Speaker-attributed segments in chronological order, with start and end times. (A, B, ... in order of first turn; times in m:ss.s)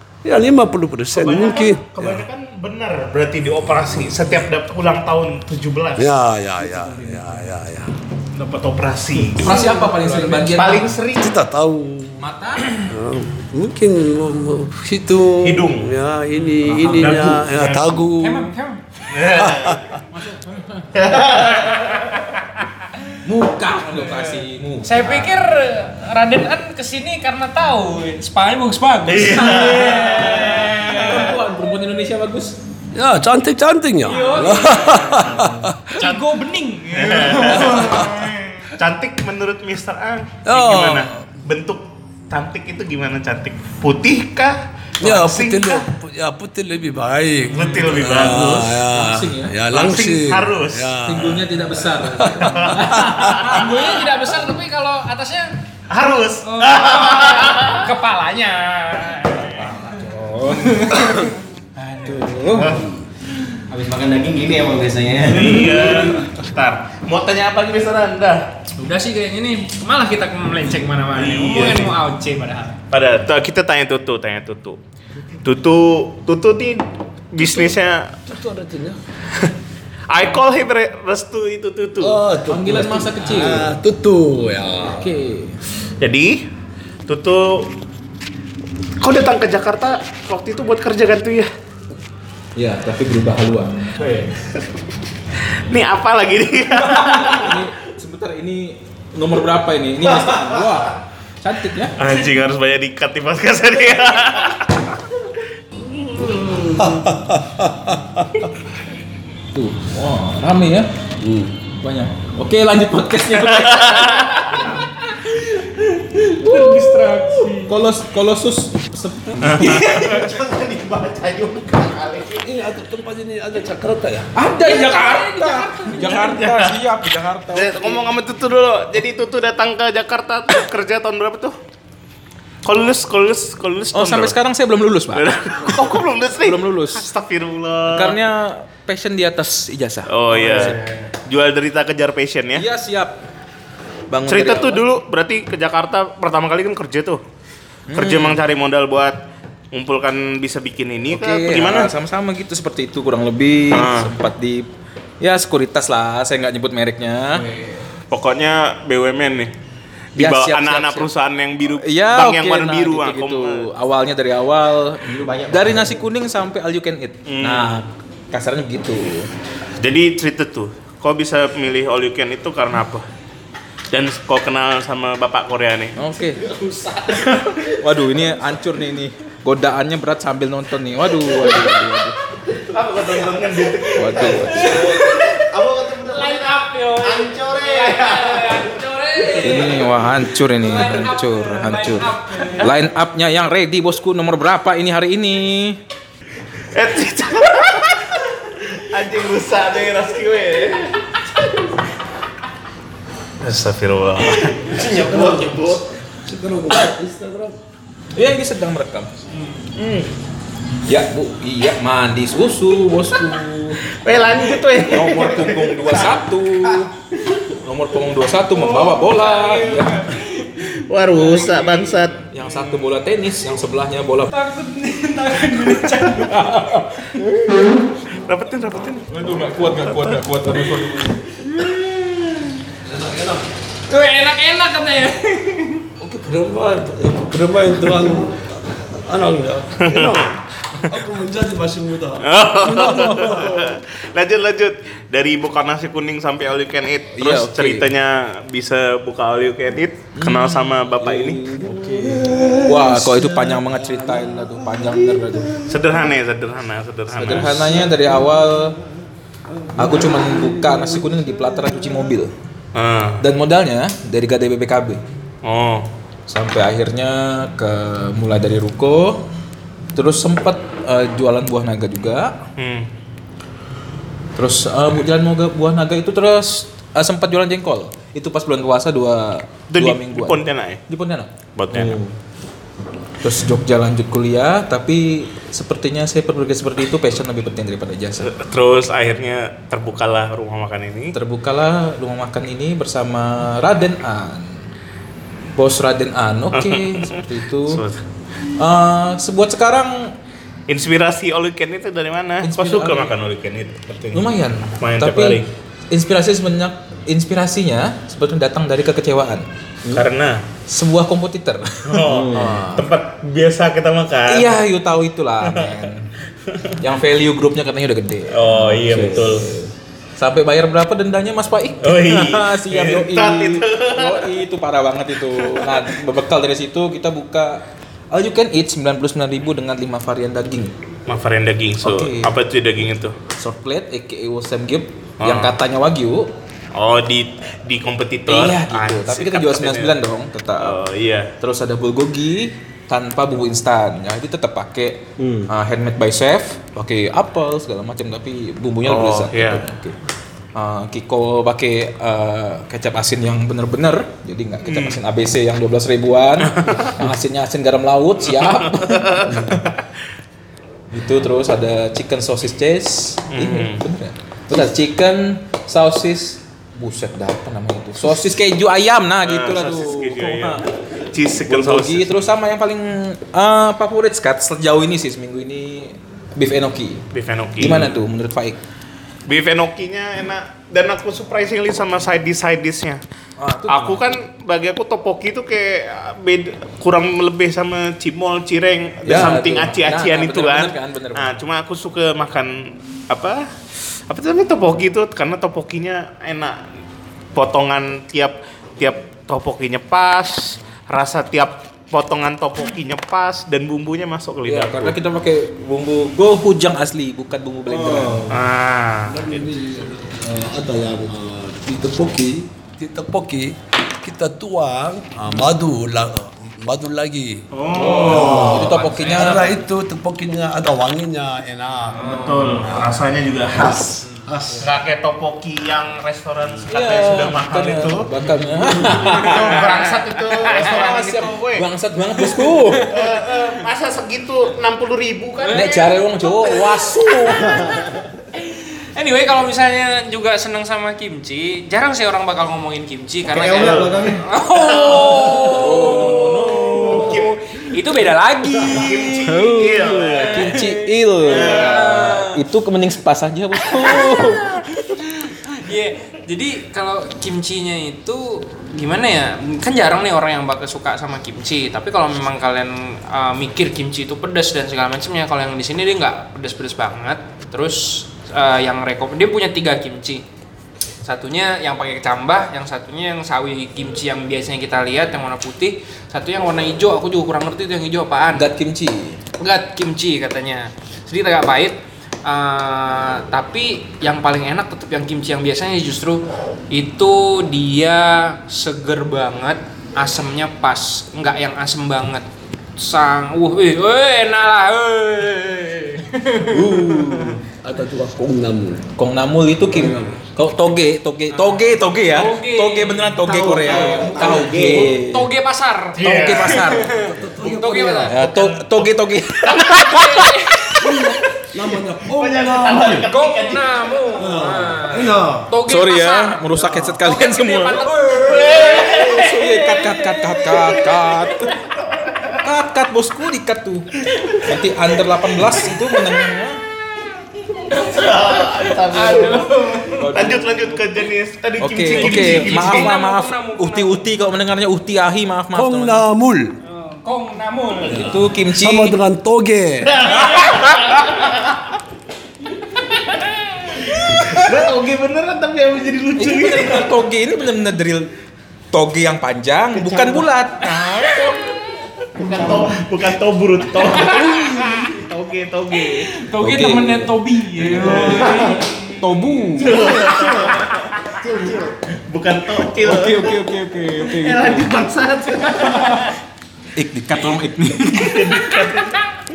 0:00.2-0:02.2 A
0:01.1-0:06.2 B
0:06.0-0:07.9 A
0:08.3-0:09.6 B
0:09.4-0:11.0 C
0:10.5-0:11.3 B
0:11.2-0:12.2 A
0:12.2-0:12.8 C
0:12.8-0:18.5 A
0:15.4-0:15.9 B
0:16.7-0:17.2 C
0:16.9-0:18.0 B
0:18.2-0:18.8 D
0:19.1-0:19.8 B
0:19.3-0:20.0 A
0:20.2-0:20.9 C
0:20.9-0:22.2 B
0:23.2-0:25.3 C
0:24.8-0:31.4 D
0:29.1-0:31.0 B
0:29.2-0:32.6 C
0:32.9-0:36.1 A
0:34.0-0:35.3 D
0:34.7-0:35.7 B
0:36.0-0:38.4 D
0:36.9-0:38.1 B
0:37.4-0:38.3 A
0:38.7-0:45.8 B
0:40.4-0:41.2 A
0:45.0-0:53.5 A
0:47.5-0:48.7 B
0:48.2-0:49.6 C
0:49.7-0:51.0 B
0:51.0-0:53.6 C
0:52.4-0:53.6 B
0:53.3-0:55.5 D
0:55.9-0:57.9 B
0:56.4-0:59.7 D
0:59.3-0:59.6 B
0:59.8-1:01.3 C
1:01.9-1:02.8 C
1:03.7-1:06.1 E
1:05.2-1:08.6 B
1:08.8-1:12.8 D
1:11.2-1:12.0 B
1:12.9-1:14.8 B
1:15.4-1:18.2 B
1:17.4-1:17.8 A
1:18.3-1:19.0 A
1:20.1-1:22.2 B
1:22.0-1:25.1 A
1:22.5-1:23.7 C
1:24.8-1:25.6 C
1:26.0-1:26.5 B
1:27.1-1:27.7 B
1:29.0-1:31.5 B
1:32.6-1:34.2 C
1:34.0-1:34.6 B
1:35.6-1:37.6 B
1:36.8-1:42.0 C
1:42.0-1:45.0 B
1:46.0-1:46.9 B
1:46.8-1:48.5 A
1:49.5-1:50.9 C
1:51.2-1:51.6 A
1:51.8-2:00.2 C
1:53.6-1:54.6 B
1:56.4-1:57.7 B
1:56.7-1:57.5 D
1:59.4-2:02.4 B
2:02.4-2:04.4 A
2:04.3-2:08.1 C
2:04.6-2:06.3 D
2:06.0-2:06.8 B
2:07.5-2:11.6 B
2:12.6-2:14.3 B
2:13.9-2:17.0 C
2:15.1-2:18.2 B
2:17.9-2:20.8 C
2:20.1-2:22.7 B
2:20.3-2:21.1 E
2:22.5-2:23.2 C
2:24.1-2:24.8 C
2:24.3-2:27.2 B
2:27.9-2:28.4 C
2:27.9-2:29.2 B
2:29.7-2:31.9 B
2:31.1-2:37.4 C
2:33.7-2:34.1 B
2:37.4-2:37.7 E
2:38.1-2:39.5 B
2:40.2-2:43.7 B
2:40.2-2:41.1 C
2:41.7-2:49.3 C
2:45.0-2:46.0 E
2:47.2-2:47.8 B
2:49.8-2:53.0 B
2:53.9-2:56.0 B
2:56.0-2:56.4 C
2:56.4-2:57.3 E
2:57.6-3:02.2 C
3:02.6-3:04.6 B
3:03.9-3:04.8 C
3:04.3-3:09.7 E
3:04.6-3:05.4 D
3:06.1-3:09.9 D
3:09.4-3:15.8 C
3:10.6-3:12.8 D
3:16.7-3:21.0 B
3:23.4-3:24.8 B
3:24.6-3:25.9 E
3:25.0-3:25.5 A
3:26.3-3:27.5 A
3:26.6-3:27.0 E
3:28.1-3:29.2 C
3:29.7-3:30.1 B
3:30.8-3:33.9 C
3:33.9-3:36.0 B
3:34.9-3:36.9 C
3:37.5-3:40.1 C
3:38.6-3:40.6 D
3:40.9-3:42.6 B
3:42.3-3:44.3 C
3:44.3-3:46.5 D
3:46.2-3:47.7 C
3:48.2-3:49.1 B
3:49.1-3:51.4 C
3:51.7-3:52.2 D
3:52.8-3:53.4 A
3:53.9-3:55.9 D
3:56.0-4:03.7 A
3:59.8-4:00.3 B
4:02.2-4:11.4 B
4:02.8-4:03.4 C
4:07.1-4:07.9 C
4:10.2-4:15.6 C
4:11.9-4:13.8 A
4:15.6-4:17.7 B
4:17.1-4:18.8 C
4:19.8-4:22.3 C
4:22.7-4:23.2 B
4:23.2-4:25.0 C
4:25.4-4:25.9 B
4:26.3-4:29.2 C
4:29.9-4:32.4 C
4:32.6-4:32.9 B
4:34.4-4:42.1 C
4:39.7-4:40.8 B
4:41.5-4:42.0 B
4:43.2-4:48.3 C
4:48.2-4:51.2 B
4:51.1-4:54.7 C
4:55.6-4:57.8 C
4:56.5-4:58.0 B
4:58.6-5:00.2 C
5:00.7-5:05.5 B
5:02.4-5:03.1 C
5:04.1-5:09.5 C
5:09.9-5:10.4 B
5:10.7-5:12.8 C
5:11.8-5:14.6 B
5:12.0-5:12.6 E
5:14.3-5:16.1 C
5:16.5-5:16.7 B
5:16.8-5:30.7 C
5:18.3-5:19.5 B
5:21.8-5:24.3 B
5:25.3-5:26.0 B
5:31.1-5:33.2 B
5:31.8-5:32.3 C
5:33.3-5:36.3 C
5:35.2-5:35.5 B
5:36.7-5:39.9 B
5:38.3-5:40.8 C
5:40.6-5:41.3 B
5:41.4-5:50.0 C
5:45.2-5:45.5 E
5:48.8-5:49.6 B
5:50.5-5:59.7 C
5:54.6-5:55.0 B
5:56.5-5:56.9 B
5:58.6-5:59.7 B
6:00.9-6:10.6 C
6:03.3-6:03.8 B
6:09.2-6:12.3 B
6:11.5-6:17.1 C
6:17.1-6:18.0 B
6:17.6-6:18.6 C
6:19.3-6:23.0 B
6:23.4-6:24.1 C
6:23.7-6:33.5 B
6:29.0-6:31.4 C
6:34.1-6:36.6 B
6:37.3-6:45.0 B
6:44.4-6:48.3 C
6:47.7-6:48.4 E
6:48.3-6:49.4 B
6:49.1-7:03.0 A
6:57.5-6:58.6 B
6:57.9-6:59.4 C
6:57.9-6:59.5 D
7:02.0-7:03.9 B
7:03.5-7:04.6 A
7:04.6-7:08.1 B
7:06.7-7:09.8 C
7:08.8-7:11.6 B
7:09.0-7:11.0 D
7:10.4-7:12.9 C
7:12.9-7:16.0 B
7:15.4-7:32.4 D
7:15.5-7:17.8 C
7:23.2-7:24.2 E
7:23.5-7:27.4 B
7:25.4-7:27.2 C
7:26.8-7:27.2 E
7:28.6-7:30.6 B
7:29.2-7:34.8 C
7:31.2-7:32.0 B
7:33.7-7:50.2 D
7:51.0-7:58.5 D
7:58.3-7:59.2 C
7:59.4-8:12.2 D
8:12.8-8:17.2 D
8:16.5-8:18.9 A
8:19.0-8:25.3 C
8:19.7-8:20.2 A
8:21.4-8:28.6 D
8:23.2-8:25.2 E
8:26.0-8:26.6 B
8:26.0-8:27.1 C
8:27.0-8:28.2 A
8:28.1-8:30.3 C
8:29.6-8:30.8 D
8:30.8-8:33.0 A
8:32.1-8:34.2 B
8:33.0-8:41.0 D
8:34.2-8:35.5 A
8:35.7-8:41.6 C
8:36.6-8:37.0 A
8:38.2-8:39.0 B
8:42.1-8:42.3 B
8:42.4-8:46.6 C
8:47.7-8:52.9 B
8:47.7-8:50.1 D
8:49.9-8:50.8 C
8:51.6-8:56.0 C
8:51.9-8:54.1 D
8:55.5-8:56.6 A
8:56.6-8:58.2 D
8:57.9-8:58.1 B
8:57.9-8:59.0 C
8:58.5-9:00.1 A
8:59.8-9:01.6 B
9:02.8-9:03.8 D
9:04.0-9:07.0 B
9:06.2-9:08.1 C
9:08.7-9:11.5 C
9:09.8-9:10.2 E
9:12.2-9:12.7 E
9:12.2-9:16.1 B
9:13.8-9:15.0 D
9:15.9-9:18.9 D
9:16.2-9:19.9 C
9:17.7-9:18.6 B
9:18.0-9:18.6 E
9:19.6-9:21.2 B
9:19.6-9:21.7 E
9:22.1-9:23.4 B
9:22.8-9:24.7 C
9:24.1-9:26.1 B
9:25.6-9:26.1 D
9:26.8-9:28.5 C
9:27.8-9:29.0 B